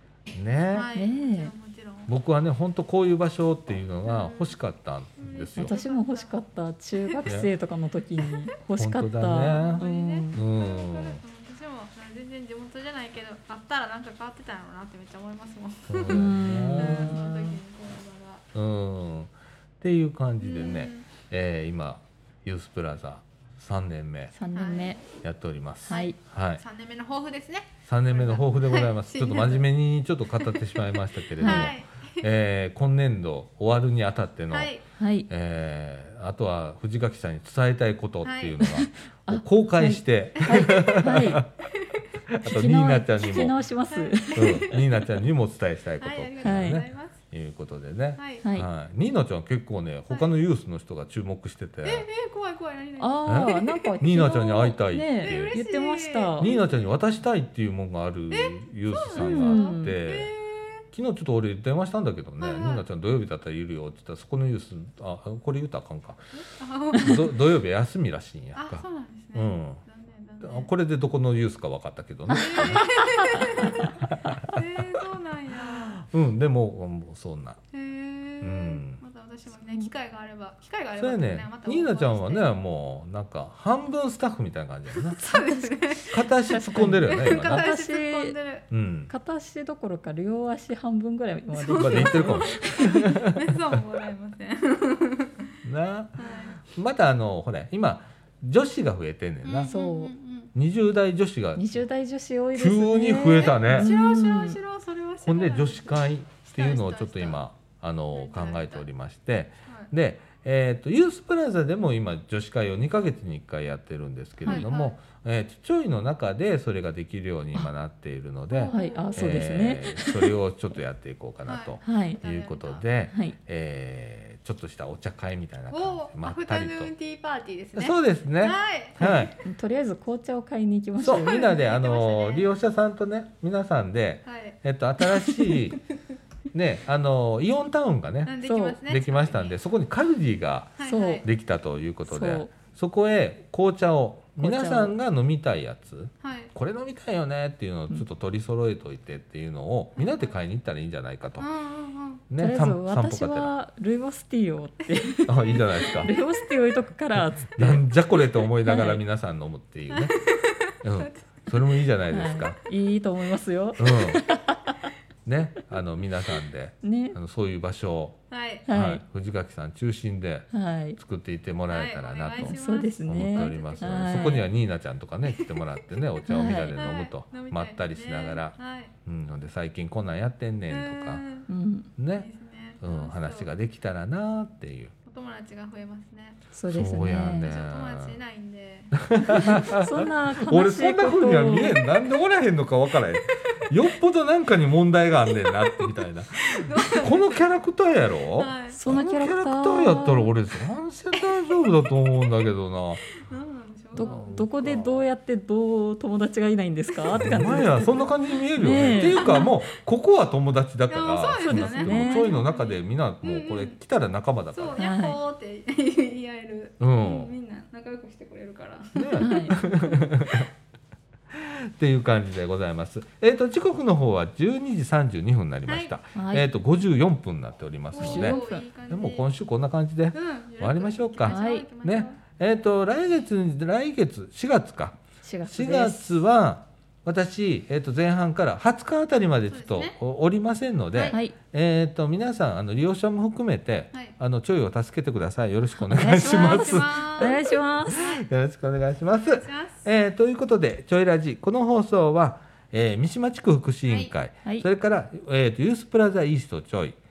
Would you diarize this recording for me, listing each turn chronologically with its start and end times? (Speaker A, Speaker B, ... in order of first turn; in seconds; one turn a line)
Speaker A: 0.3-0.9
Speaker B: 0.7-2.1
Speaker C: 0.9-1.5
Speaker A: 2.1-5.7
Speaker B: 4.0-4.5
Speaker B: 5.2-6.3
Speaker C: 5.5-10.3
Speaker B: 7.0-7.3
Speaker A: 7.2-7.5
Speaker A: 8.8-11.2
Speaker B: 9.4-18.4
Speaker A: 15.9-17.2
Speaker C: 16.1-17.6
Speaker A: 18.5-24.3
Speaker B: 20.4-21.1
Speaker C: 24.3-25.0
Speaker B: 24.5-25.0
Speaker A: 25.2-26.6
Speaker C: 25.9-26.1
Speaker B: 25.9-29.6
Speaker A: 27.8-34.7
Speaker B: 30.4-32.2
Speaker C: 31.4-31.7
Speaker B: 34.5-34.8
Speaker C: 34.9-35.3
Speaker A: 35.3-41.7
Speaker B: 38.2-38.6
Speaker C: 38.8-41.4
Speaker B: 40.4-41.0
Speaker A: 42.3-43.6
Speaker C: 42.4-44.6
Speaker B: 43.9-45.2
Speaker A: 44.3-52.1
Speaker B: 46.0-47.2
Speaker C: 46.4-46.8
Speaker B: 48.2-48.4
Speaker C: 48.4-48.7
Speaker B: 51.8-53.9
Speaker C: 53.0-56.5
Speaker A: 53.2-55.6
Speaker B: 55.2-56.9
Speaker A: 56.4-60.3
Speaker B: 58.3-60.8
Speaker C: 59.1-59.9
Speaker A: 60.9-66.2
Speaker B: 62.4-62.8
Speaker B: 66.4-67.3
Speaker A: 67.0-68.8
Speaker B: 68.5-70.7
Speaker A: 69.3-69.8
Speaker A: 70.4-75.0
Speaker C: 72.3-73.8
Speaker B: 72.3-73.9
Speaker B: 74.4-76.0
Speaker A: 75.6-77.6
Speaker B: 77.7-82.5
Speaker A: 78.4-79.0
Speaker A: 81.0-85.2
Speaker B: 85.1-86.2
Speaker C: 85.2-88.3
Speaker A: 86.1-87.6
Speaker B: 87.0-88.7
Speaker A: 88.7-89.1
Speaker C: 89.1-93.0
Speaker B: 91.5-95.5
Speaker A: 91.8-93.8
Speaker A: 95.6-99.7
Speaker B: 96.2-96.6
Speaker B: 99.4-100.5
Speaker C: 99.7-100.1
Speaker A: 100.5-101.8
Speaker C: 101.6-104.6
Speaker A: 102.6-103.9
Speaker B: 103.4-107.4
Speaker A: 105.2-126.9
Speaker B: 108.1-108.8
Speaker B: 114.4-114.9
Speaker B: 118.5-119.5
Speaker C: 118.7-120.3
Speaker B: 121.4-122.8
Speaker C: 121.8-122.2
Speaker C: 123.1-123.3
Speaker B: 125.7-129.3
Speaker A: 127.7-129.3
Speaker C: 129.0-131.5
Speaker A: 131.0-135.8
Speaker B: 131.0-132.5
Speaker B: 134.2-134.6
Speaker A: 136.5-151.4
Speaker B: 138.2-139.6
Speaker C: 138.4-138.8
Speaker B: 140.8-141.2
Speaker C: 140.8-141.2
Speaker C: 142.1-142.5
Speaker C: 144.4-144.9
Speaker B: 146.2-146.5
Speaker B: 149.9-150.2
Speaker B: 151.4-152.2
Speaker A: 152.3-153.5
Speaker C: 152.4-157.8
Speaker A: 155.2-156.1
Speaker A: 157.5-160.2
Speaker C: 158.6-159.0
Speaker B: 159.9-161.5
Speaker A: 160.8-162.6
Speaker C: 162.1-164.7
Speaker A: 163.8-164.2
Speaker A: 165.2-181.2
Speaker C: 166.8-167.2
Speaker B: 168.3-168.7
Speaker C: 168.7-169.0
Speaker C: 170.5-171.0
Speaker B: 171.7-174.5
Speaker C: 172.4-174.4
Speaker B: 175.3-175.6
Speaker C: 176.2-176.7
Speaker B: 176.5-178.9
Speaker B: 180.7-181.5
Speaker C: 181.5-181.9
Speaker A: 182.0-182.3
Speaker B: 182.2-183.5
Speaker A: 182.8-184.9
Speaker B: 185.1-186.4
Speaker C: 186.5-187.5
Speaker A: 186.7-188.2
Speaker B: 187.3-189.6
Speaker A: 189.0-203.1
Speaker C: 189.3-191.8
Speaker B: 195.3-197.4
Speaker B: 198.3-198.8
Speaker C: 198.7-200.3
Speaker B: 203.2-204.2
Speaker C: 203.9-208.0
Speaker A: 203.9-205.0
Speaker A: 207.1-214.8
Speaker C: 208.6-209.5
Speaker B: 208.9-209.7
Speaker B: 210.9-213.8
Speaker C: 211.5-212.4
Speaker B: 214.5-219.7
Speaker C: 214.8-215.2
Speaker A: 216.8-217.3
Speaker A: 218.9-220.5
Speaker C: 219.2-219.6
Speaker A: 221.3-257.0
Speaker B: 225.7-225.9
Speaker C: 226.1-226.5
Speaker B: 227.9-229.3
Speaker C: 228.0-228.6
Speaker B: 230.1-232.2
Speaker C: 231.2-231.7
Speaker C: 235.2-236.1
Speaker B: 239.5-239.9
Speaker C: 245.8-248.2
Speaker B: 246.1-247.6
Speaker B: 249.4-249.8
Speaker B: 253.9-254.1